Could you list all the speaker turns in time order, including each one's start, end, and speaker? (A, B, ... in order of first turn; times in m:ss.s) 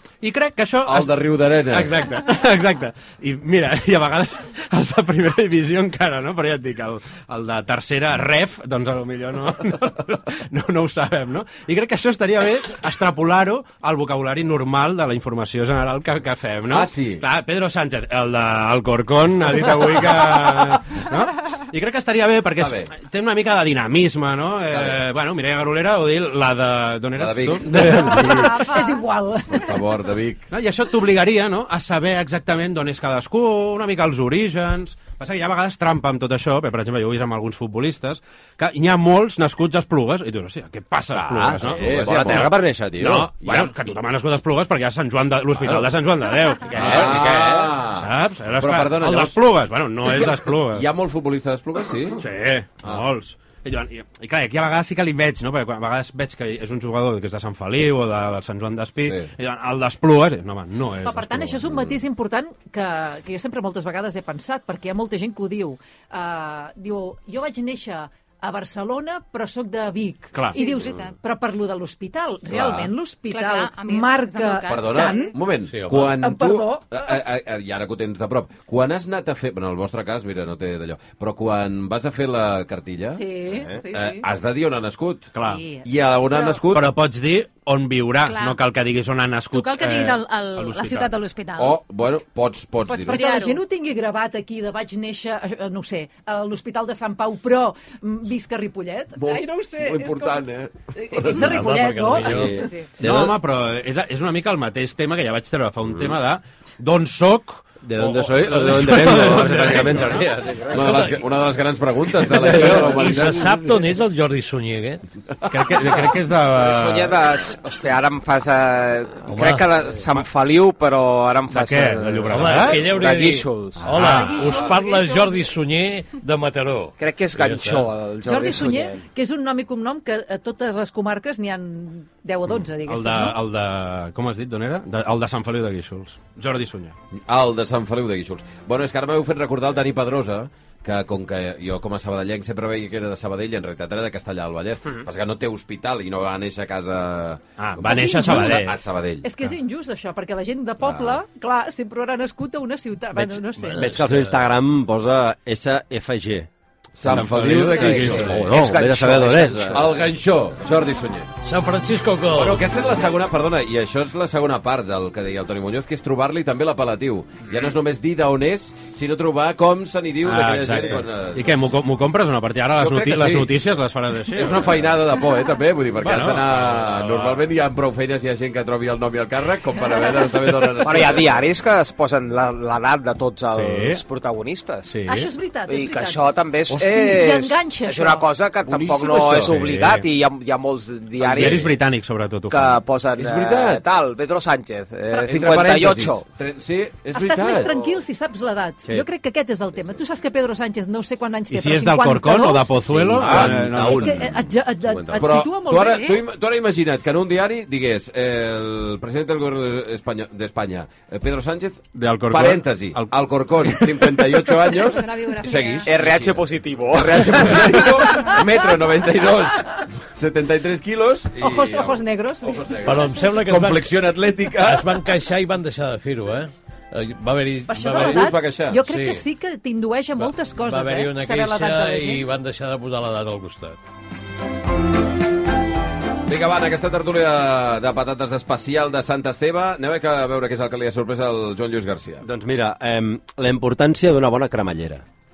0:00.2-0:28.3 A
0:00.8-0:02.1 B
0:16.7-0:17.2 B
0:22.6-0:22.9 B
0:24.7-0:25.0 B
0:27.2-0:28.6 B
0:28.1-0:29.8 C
0:28.4-0:29.0 D
0:29.5-0:30.5 B
0:30.5-0:50.9 A
0:41.1-0:43.7 E
0:41.6-0:42.5 B
0:45.6-0:45.9 E
0:46.7-0:47.7 E
0:46.8-0:49.4 B
0:50.0-0:52.2 B
0:52.2-1:01.9 A
0:59.0-0:59.3 B
1:01.0-1:15.4 C
1:10.3-1:10.6 A
1:10.5-1:11.1 D
1:12.5-1:12.9 B
1:13.3-1:15.3 D
1:14.7-1:26.9 B
1:15.7-1:16.2 F
1:15.9-1:17.2 C
1:23.2-1:24.3 C
1:25.3-1:25.6 A
1:25.4-1:26.6 C
1:26.7-1:31.1 A
1:28.2-1:28.6 D
1:29.5-1:31.8 D
1:31.6-1:33.2 B
1:32.9-1:42.9 C
1:33.0-1:33.6 D
1:39.2-1:41.7 B
1:41.2-1:42.7 F
1:42.2-1:43.4 E
1:43.0-1:50.3 A
1:47.8-1:51.1 E
1:50.7-1:53.6 B
1:50.8-1:51.1 F
1:52.3-1:53.2 E
1:52.4-1:55.0 F
1:55.5-1:55.9 B
1:55.5-1:57.2 A
1:56.5-2:04.0 G
1:59.3-1:59.7 F
2:01.5-2:02.9 A
2:02.3-2:07.9 F
2:03.8-2:04.5 A
2:03.9-2:05.5 C
2:07.0-2:09.0 G
2:08.2-2:13.4 C
2:12.8-2:17.0 A
2:17.1-2:27.4 B
2:27.6-2:28.8 A
2:27.8-2:28.7 C
2:28.2-2:29.3 B
2:29.2-2:34.0 C
2:30.8-2:31.2 B
2:33.2-2:34.4 F
2:33.8-2:36.5 E
2:37.0-2:38.5 B
2:37.0-2:38.5 A
2:37.7-2:40.1 G
2:38.1-2:39.8 E
2:39.7-2:41.3 B
2:41.4-2:42.6 F
2:42.3-2:51.6 B
2:50.2-2:54.8 A
2:52.8-2:53.5 B
2:54.3-3:01.4 B
2:56.0-2:57.5 A
3:00.8-3:04.9 G
3:03.5-3:04.0 A
3:04.9-3:05.3 A
3:05.1-3:08.3 C
3:05.7-3:11.8 G
3:08.6-3:09.5 B
3:09.3-3:10.1 A
3:11.2-3:12.8 A
3:11.4-3:11.6 B
3:12.5-3:16.3 G
3:13.2-3:13.8 B
3:15.2-3:17.7 B
3:17.1-3:22.8 C
3:17.5-3:18.0 G
3:21.5-3:24.2 A
3:22.9-3:24.4 E
3:23.1-3:45.0 B
3:23.8-3:26.0 C
3:25.7-3:26.2 D
3:32.0-3:34.2 A
3:34.7-3:35.9 D
3:35.8-3:37.9 G
3:41.4-3:43.1 C
3:42.8-3:43.9 F
3:44.6-3:48.3 F
3:47.7-3:52.2 C
3:47.9-3:48.8 B
3:48.8-3:49.3 F
3:50.2-3:53.8 F
3:56.3-4:02.3 B
4:02.2-4:05.0 E